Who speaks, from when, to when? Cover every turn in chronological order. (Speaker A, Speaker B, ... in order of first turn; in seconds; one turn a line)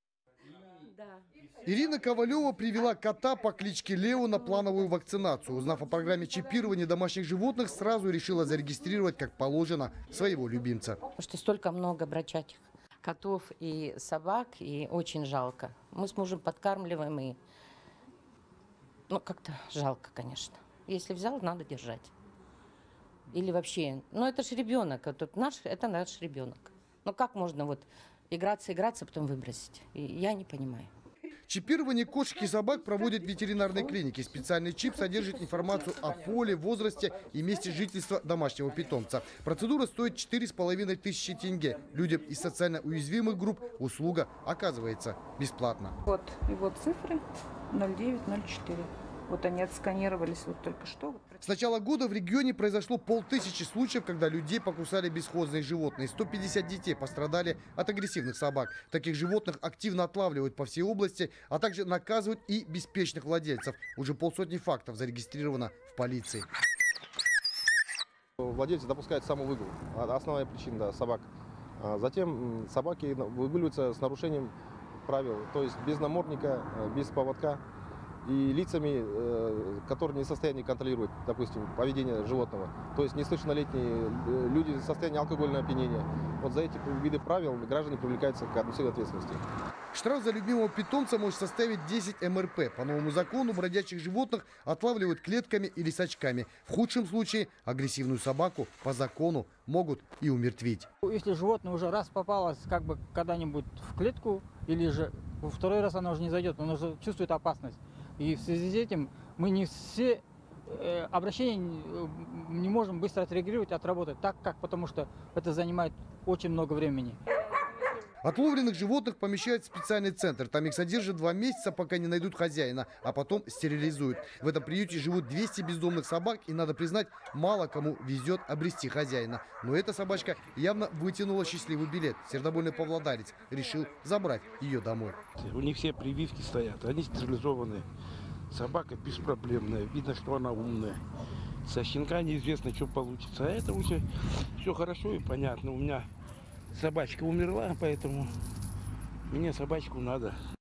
Speaker A: 1.6-11.0
Speaker B: 11.2-17.4
Speaker B: 19.1-22.1
Speaker B: 23.3-30.9
Speaker A: 31.5-45.9
Speaker C: 46.0-51.4
Speaker A: 51.4-66.5
Speaker D: 68.4-74.5
Speaker D: 75.0-77.6
Speaker D: 78.2-89.4
Speaker A: 89.9-100.9
Speaker E: 101.0-117.2
Speaker A: 118.2-135.2
Speaker F: 135.4-137.8
Speaker F: 138.5-141.0
Speaker F: 141.7-144.0
Speaker F: 144.6-146.1
Speaker F: 146.7-148.3
Speaker F: 149.3-150.3